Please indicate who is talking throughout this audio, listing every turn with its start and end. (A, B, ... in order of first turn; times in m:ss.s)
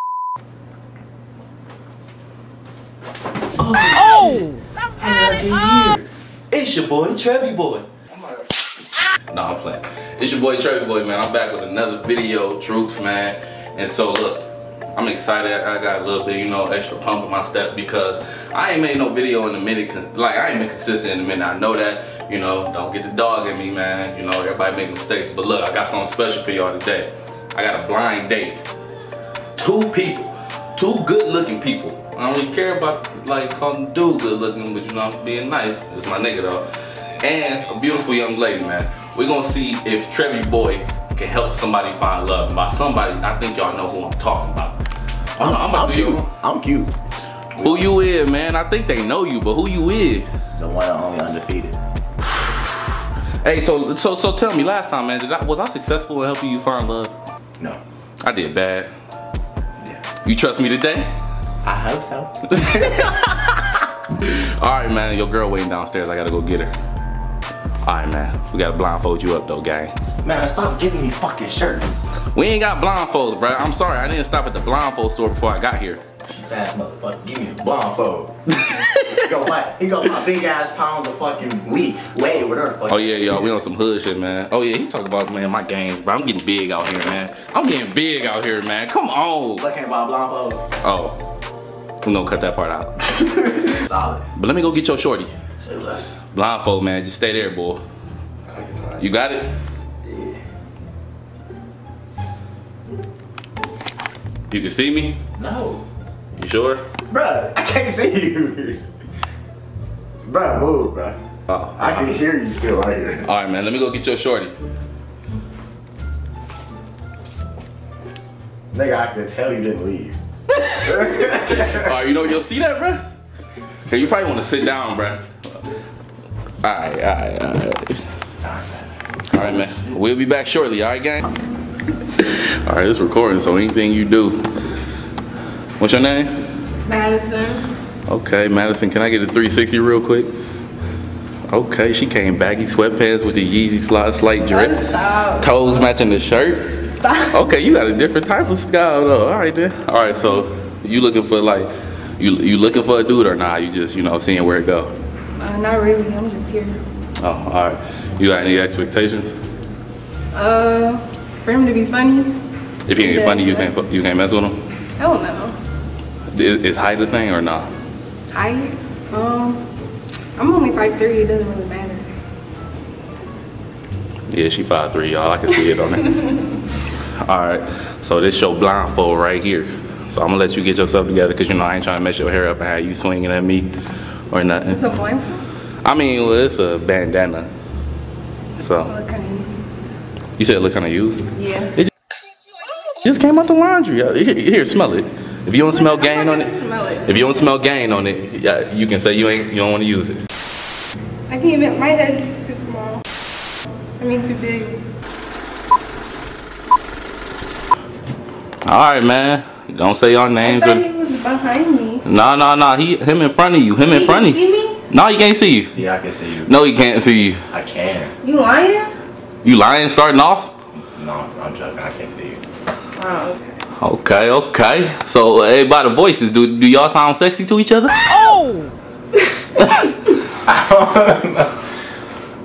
0:03.6-0:04.4 A
0:05.0-0:07.9 A
0:09.3-0:28.6 A
0:29.6-0:36.7 A
0:37.2-0:44.8 A
0:45.3-0:46.3 A
0:45.4-0:46.9 B
0:47.6-0:47.9 B
0:47.6-0:50.3 A
0:50.6-0:51.8 B
0:52.2-0:57.1 A
0:58.2-0:58.9 A
1:00.2-1:01.1 A
1:01.6-1:03.6 B
1:02.6-1:03.3 A
1:04.2-1:06.7 A
1:07.8-1:09.9 A
1:10.2-1:12.0 B
1:12.3-1:16.0 A
1:16.2-1:23.5 B
1:22.9-1:29.6 A
1:29.6-1:30.6 B
1:30.8-1:31.2 A
1:32.0-1:33.1 A
1:33.2-1:34.3 B
1:34.4-1:35.3 A
1:35.6-1:36.2 B
1:36.3-1:37.8 A
1:38.5-1:39.1 B
1:39.0-1:39.5 A
1:40.0-1:40.4 B
1:44.5-1:45.2 A
1:45.4-1:45.8 B
1:46.4-1:46.8 A
1:47.1-1:48.8 B
1:50.2-1:51.2 B
1:51.8-1:53.3 B
1:53.2-1:54.5 A
1:58.7-2:00.2 B
2:00.8-2:01.9 B
2:01.2-2:03.0 A
2:03.9-2:05.6 A
2:06.6-2:08.0 A
2:08.4-2:08.9 B
2:09.3-2:11.3 A
2:12.2-2:14.5 A
2:15.8-2:16.5 A
2:16.8-2:17.7 C
2:18.1-2:20.3 A
2:21.5-2:24.8 A
2:24.4-2:25.6 C
2:25.4-2:34.9 A
2:26.9-2:27.4 C
2:35.4-2:36.8 C
2:37.2-2:39.4 A
2:40.3-2:42.4 C
2:42.9-2:44.6 A
2:43.0-2:43.7 C
2:45.0-2:45.6 C
2:46.3-2:47.7 A
2:48.3-2:49.6 C
2:50.4-2:52.0 C
2:54.3-2:56.4 A
2:57.2-3:03.7 A
3:04.3-3:04.8 A
3:04.7-3:05.4 C
3:05.8-3:07.5 A
3:08.6-3:08.9 A
3:08.8-3:09.9 C
3:10.4-3:11.9 A
3:11.4-3:11.8 C
3:13.0-3:20.2 A
3:15.7-3:17.5 C
3:21.3-3:23.0 C
3:24.0-3:24.8 C
3:28.7-3:30.8 A
3:30.4-3:32.0 C
3:32.0-3:35.8 A
3:33.9-3:34.8 C
3:35.7-3:36.5 B
3:36.5-3:37.4 A
3:37.5-3:38.1 B
3:38.2-3:38.9 C
3:39.4-3:40.5 A
3:41.0-3:42.4 B
3:43.0-3:43.6 C
3:43.8-3:48.0 A
3:50.4-3:51.5 B